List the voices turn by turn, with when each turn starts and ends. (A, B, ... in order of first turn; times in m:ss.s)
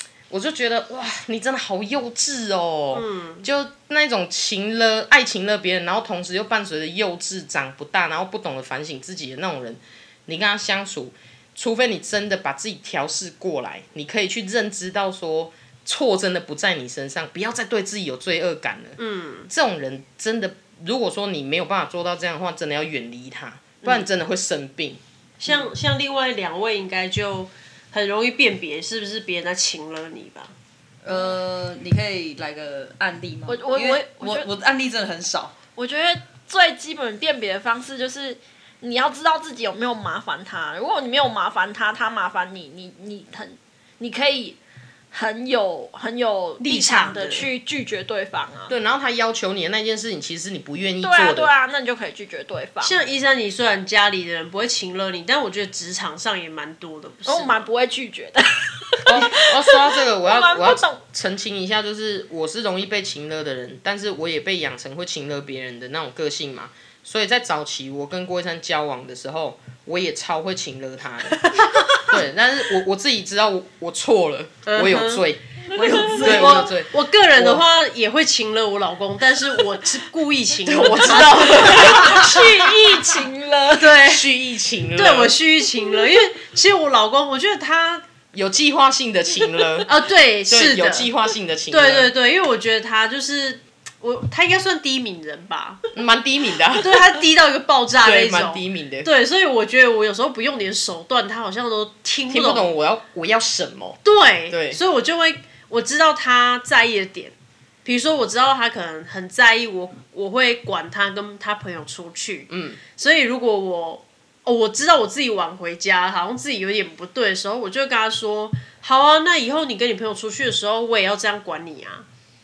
0:00.3-0:19.0 A
0:02.9-0:03.4 B
0:19.0-0:19.5 B
0:19.5-0:25.0 A
0:23.8-0:24.1 B
0:25.4-0:30.5 B
0:31.0-0:35.5 C
0:33.5-0:34.5 D
0:35.8-0:44.6 D
0:45.1-0:48.7 D
0:46.6-0:47.5 B
0:48.7-0:51.5 A
0:51.0-0:53.0 D
0:52.8-0:57.6 B
0:57.2-1:01.0 D
0:59.0-1:15.4 A
1:11.4-1:12.1 B
1:14.6-1:15.2 B
1:15.7-1:16.7 C
1:16.1-1:22.4 B
1:16.2-1:17.6 A
1:20.7-1:22.4 A
1:21.0-1:24.0 D
1:23.8-1:24.2 B
1:24.0-1:25.4 A
1:24.9-1:28.0 B
1:28.3-1:29.9 A
1:29.8-1:31.1 B
1:30.5-1:32.1 A
1:31.7-1:35.8 B
1:35.9-1:37.2 A
1:36.7-1:42.7 B
1:38.0-1:39.1 A
1:42.3-1:44.8 A
1:44.0-1:47.3 B
1:47.8-2:02.0 B
1:52.5-1:52.8 A